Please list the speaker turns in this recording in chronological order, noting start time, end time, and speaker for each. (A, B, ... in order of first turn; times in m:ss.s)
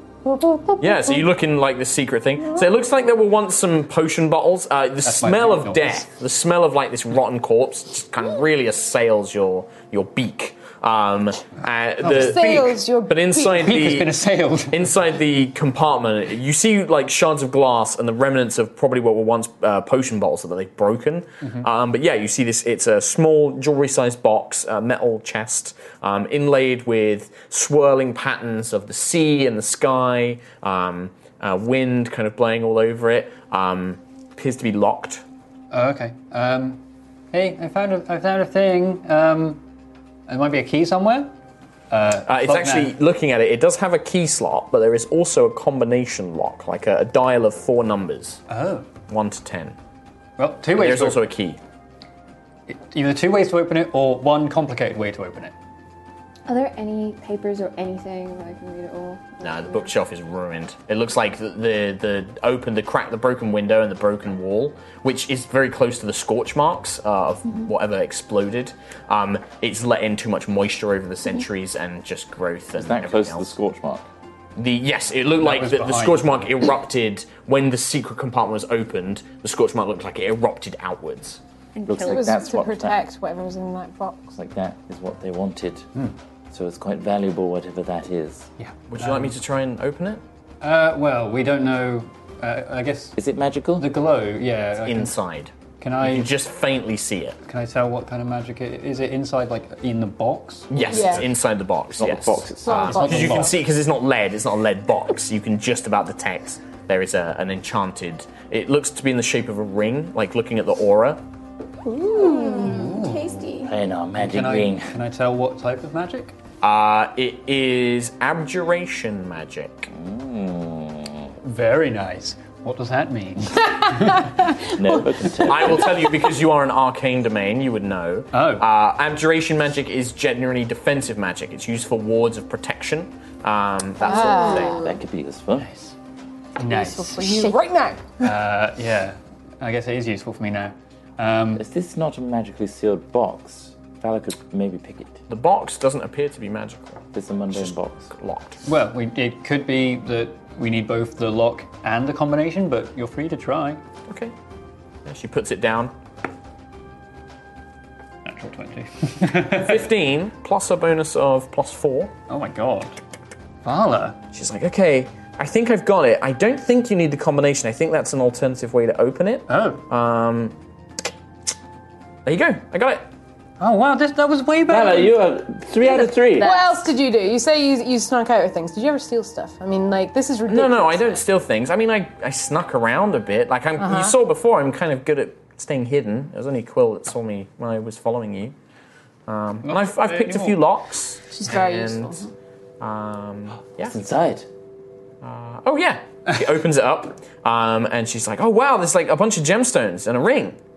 0:00.8-0:14.2 A
0:05.0-0:06.1 B
0:12.0-0:12.8 B
0:12.1-0:13.7 C
0:13.5-0:14.9 B
0:14.7-0:35.2 A
0:35.7-0:36.8 B
0:37.3-0:39.6 B
0:40.3-0:41.3 B
0:41.9-0:43.0 B
0:42.3-0:48.4 A
0:48.5-0:48.9 B
0:49.1-0:49.8 A
0:50.4-0:51.2 B
0:50.8-0:51.6 A
0:52.7-0:55.5 B
0:56.5-0:59.9 D
0:59.4-1:13.5 A
1:12.8-1:14.0 E
1:14.6-1:21.4 A
1:15.4-1:16.7 B
1:21.8-1:22.4 D
1:21.9-1:23.0 E
1:22.0-1:24.4 C
1:24.4-1:25.9 E
1:26.5-1:28.5 E
1:28.6-1:29.4 B
1:28.9-1:30.2 A
1:30.6-1:33.2 B
1:33.2-1:33.9 E
1:33.8-1:35.2 B
1:34.8-1:37.4 A
1:35.8-1:36.3 B
1:37.4-1:41.1 B
1:40.7-1:51.2 A
1:40.9-1:41.3 C
1:41.9-1:43.0 E
1:42.6-1:43.5 C
1:42.8-1:43.6 B
1:51.9-1:53.8 D
1:52.2-1:52.7 C
1:52.6-1:53.6 B
1:53.6-1:54.9 E
1:54.1-1:56.3 B
1:56.6-1:59.9 A
1:59.9-2:01.3 E
2:01.4-2:04.6 B
2:04.2-2:05.0 C
2:04.7-2:06.0 E
2:05.4-2:14.8 A
2:08.3-2:08.7 B
2:14.0-2:15.0 D
2:14.0-2:14.8 C
2:14.7-2:15.7 E
2:15.6-2:15.9 B
2:16.6-2:17.5 B
2:16.7-2:18.3 C
2:18.2-2:21.6 B
2:21.6-2:25.2 E
2:25.3-2:28.6 A
2:27.1-2:28.1 E
2:28.7-2:33.8 B
2:35.1-2:35.9 A
2:38.2-2:39.9 B
2:39.6-2:42.1 A
2:42.3-2:43.0 B
2:43.6-2:44.2 B
2:44.3-2:50.6 A
2:49.5-2:49.8 B
2:52.3-2:53.0 A
2:53.6-2:55.2 B
2:54.7-2:56.6 E
2:56.3-3:01.2 C
3:00.5-3:08.6 A
3:03.8-3:04.2 C
3:09.3-3:12.3 A
3:09.6-3:10.6 B
3:11.3-3:12.3 C
3:12.8-3:13.9 A
3:13.8-3:14.5 E
3:15.2-3:20.6 A